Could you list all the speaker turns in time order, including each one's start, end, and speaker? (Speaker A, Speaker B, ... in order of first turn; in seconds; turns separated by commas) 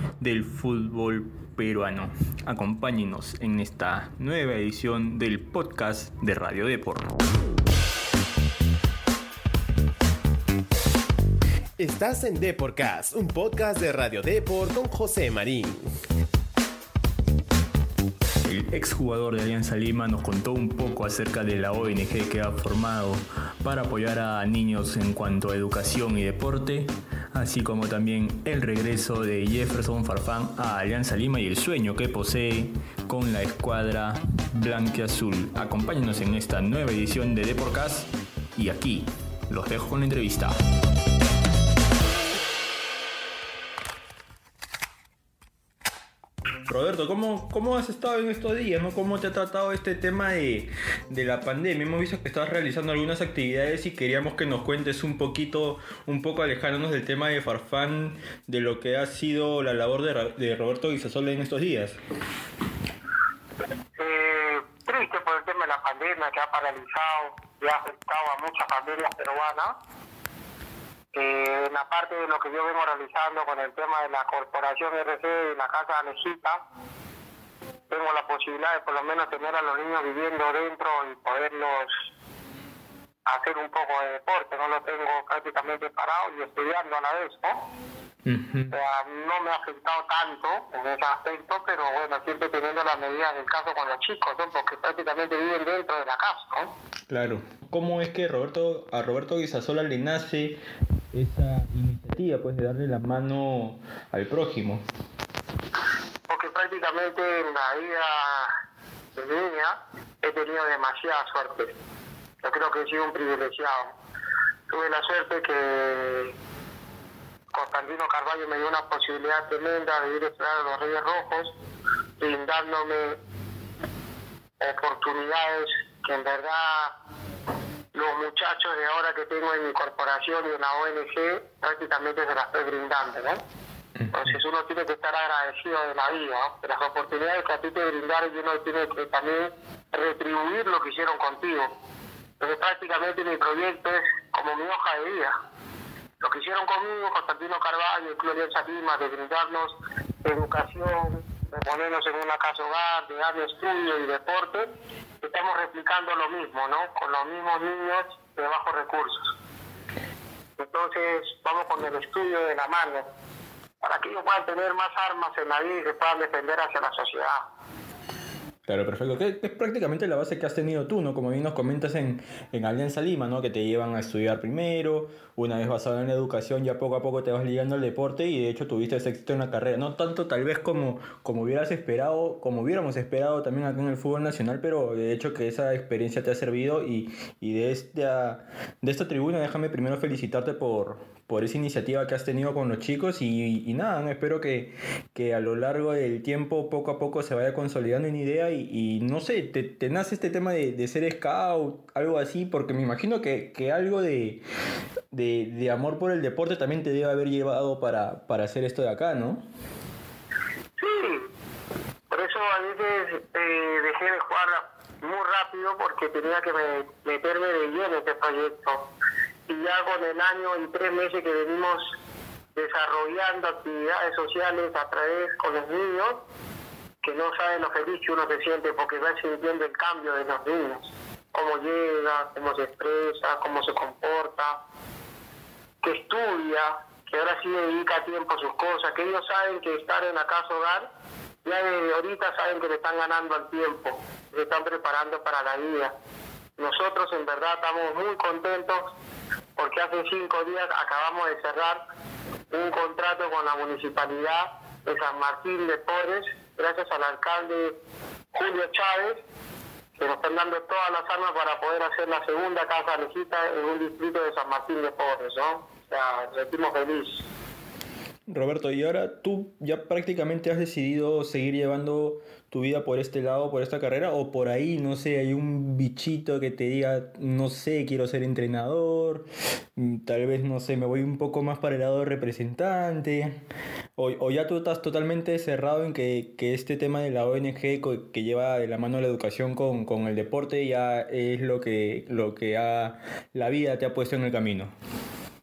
Speaker A: 0.2-7.1, Speaker B: 11.8-15.8, Speaker A: 18.4-40.5, Speaker A: 46.7-62.0, Speaker C: 64.0-69.8, Speaker C: 71.1-76.6, Speaker C: 77.9-81.9, Speaker C: 83.2-87.6, Speaker A: 88.2-88.7, Speaker C: 88.7-96.7, Speaker A: 97.1-100.6, Speaker A: 101.1-104.8, Speaker C: 106.3-108.5, Speaker C: 109.2-111.7, Speaker C: 112.4-113.9, Speaker C: 114.7-116.3, Speaker C: 117.5-121.5, Speaker C: 122.2-123.2, Speaker C: 124.6-126.9, Speaker C: 127.9-133.4, Speaker A: 134.0-134.3, Speaker C: 134.1-141.7, Speaker C: 142.4-145.3, Speaker C: 146.2-154.7, Speaker C: 155.2-159.3, Speaker C: 160.6-163.0, Speaker C: 163.8-167.4, Speaker A: 168.7-204.4, Speaker A: 205.1-209.4, Speaker C: 210.8-211.2, Speaker C: 212.1-218.9, Speaker C: 219.5-221.9, Speaker C: 222.6-226.2, Speaker C: 227.0-234.6, Speaker C: 235.8-240.8, Speaker C: 241.4-245.9, Speaker C: 246.6-248.9, Speaker C: 249.6-251.8, Speaker C: 252.5-257.7, Speaker C: 258.3-259.2, Speaker C: 259.9-267.2, Speaker A: 268.3-283.4, Speaker A: 284.0-294.7